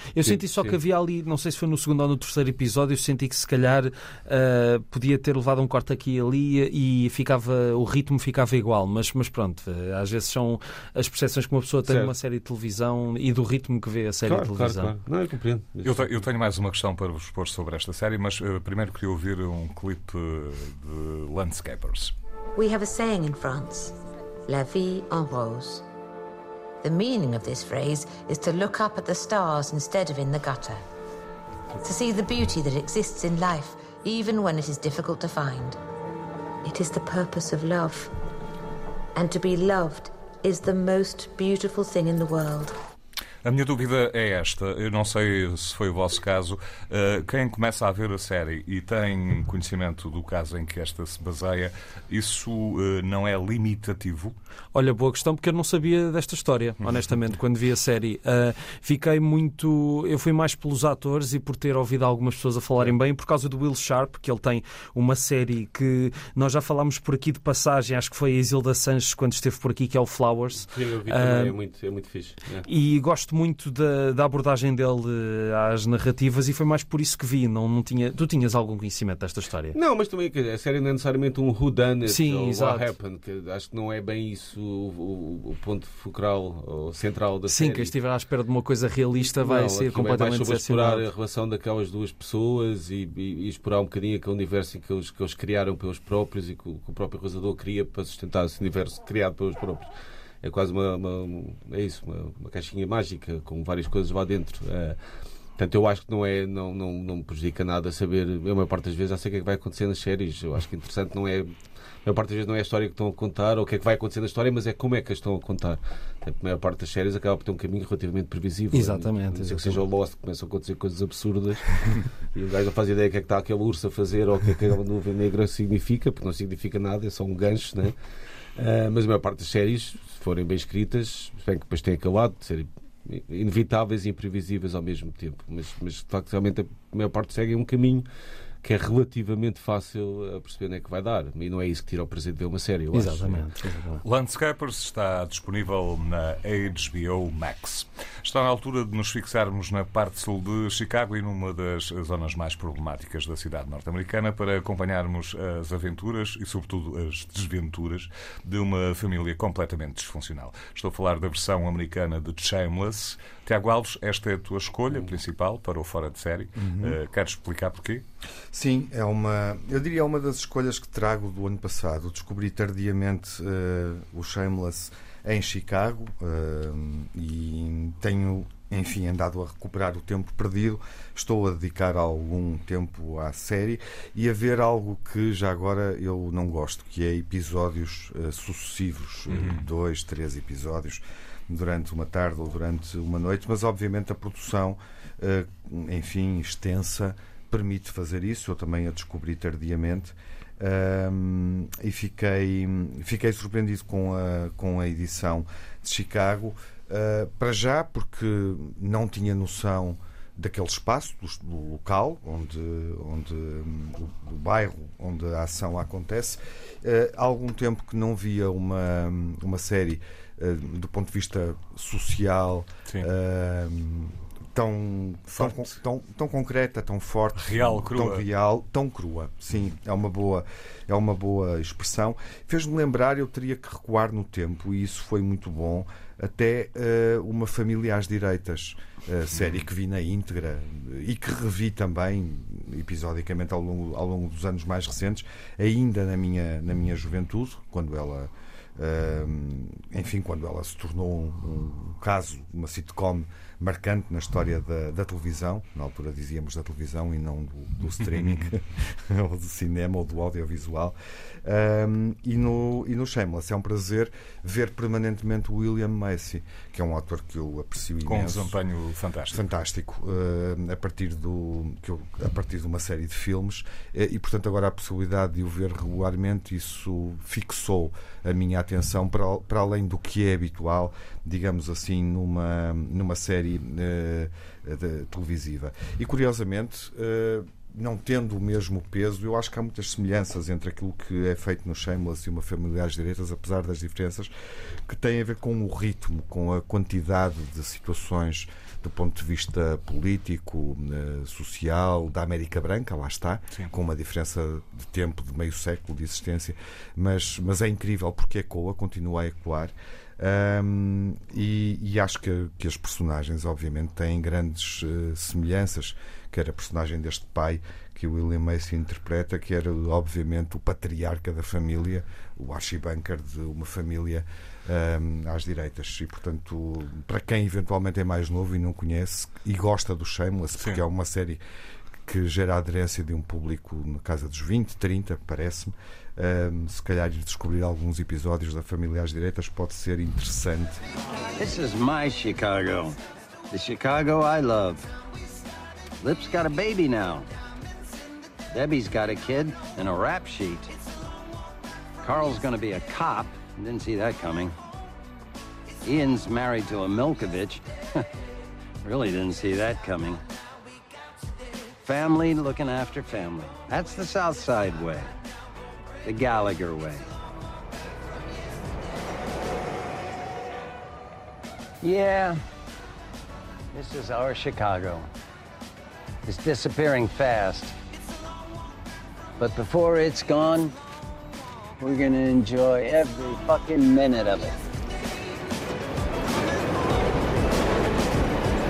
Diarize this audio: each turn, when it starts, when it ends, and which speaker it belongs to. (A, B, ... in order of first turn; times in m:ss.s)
0:00.1-0:14.9 A
0:00.2-0:00.8 B
0:11.8-0:12.1 B
0:14.2-0:16.2 B
0:15.8-0:22.1 C
0:22.6-0:24.0 D
0:24.5-0:25.8 D
0:26.8-0:30.8 D
0:31.8-0:35.8 D
0:36.6-0:38.1 D
0:39.1-0:42.8 D
0:43.4-0:54.3 C
0:54.7-1:11.6 A
1:10.6-1:12.6 B
1:12.6-1:19.8 A
1:19.7-1:27.9 B
1:22.0-1:22.9 A
1:27.5-1:31.0 A
1:29.2-1:39.9 B
1:40.4-1:45.0 B
1:45.6-2:08.0 B
1:58.7-1:59.8 A
2:08.6-2:18.0 B
2:18.6-2:23.4 B
2:22.9-2:24.0 A
2:24.0-2:48.0 C
2:46.6-2:47.0 E
2:48.5-4:28.6 E
3:09.3-3:09.6 C
3:47.4-3:48.2 C
3:59.3-3:59.6 C
4:18.0-4:18.5 C
4:28.0-4:29.4 C
4:29.3-5:31.4 E
5:32.0-5:40.8 E
5:41.4-5:43.0 F
5:43.5-5:44.9 F
5:46.0-5:47.3 F
5:48.5-5:50.7 F
5:52.0-5:54.6 F
5:55.8-5:58.1 F
5:58.8-6:00.2 F
6:01.8-6:05.1 F
6:06.0-6:07.0 F
6:11.8-6:12.4 F
6:13.7-6:15.1 F
6:16.2-6:17.7 F
6:19.4-6:20.7 F
6:21.8-6:24.6 F